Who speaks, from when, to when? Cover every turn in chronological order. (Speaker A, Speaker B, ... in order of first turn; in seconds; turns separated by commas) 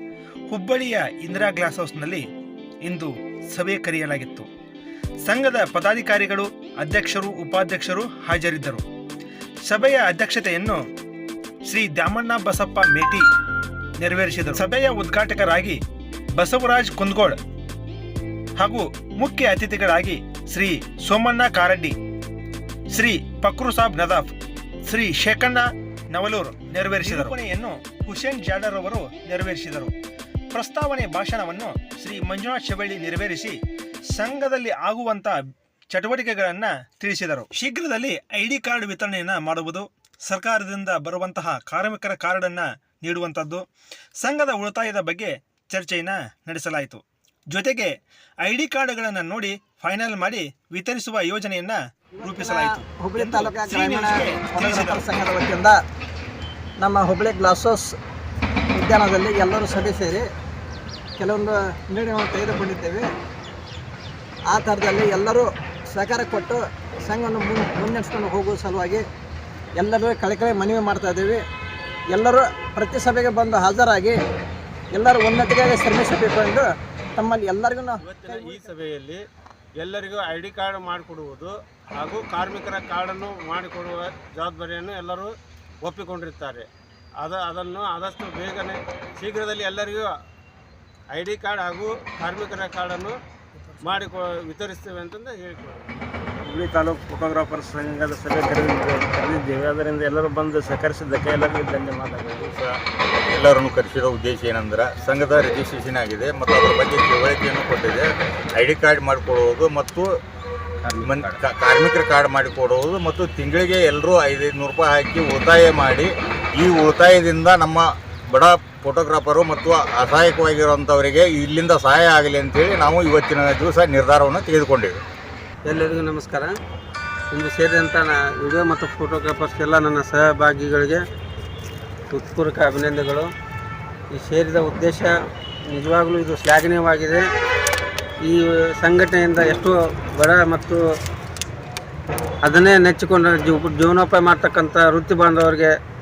Speaker A: 0.5-2.2, Speaker A: 2.9-4.5, Speaker A: 5.2-8.8, Speaker A: 9.7-10.8, Speaker A: 11.7-13.2, Speaker A: 14.0-15.8, Speaker A: 16.4-17.4, Speaker A: 18.6-21.9, Speaker A: 22.9-24.3, Speaker A: 24.9-29.9, Speaker A: 30.5-33.6, Speaker A: 34.1-43.6, Speaker A: 44.2-55.0, Speaker B: 52.2-55.8, Speaker B: 56.8-57.9, Speaker B: 58.8-60.2, Speaker B: 61.2-63.1, Speaker B: 64.5-69.0, Speaker B: 69.8-71.4, Speaker B: 72.1-74.2, Speaker B: 74.9-76.6, Speaker B: 77.2-78.6, Speaker C: 78.0-79.2, Speaker C: 79.8-85.3, Speaker C: 85.8-86.7, Speaker C: 87.2-90.1, Speaker C: 91.1-93.1, Speaker C: 93.8-95.9, Speaker D: 96.5-102.6, Speaker E: 103.3-110.1, Speaker D: 110.8-111.4, Speaker E: 111.0-125.0, Speaker F: 125.7-126.5, Speaker F: 127.3-131.0, Speaker F: 132.2-133.3, Speaker F: 134.1-135.1, Speaker F: 135.7-137.2, Speaker F: 138.2-140.8, Speaker F: 142.4-145.7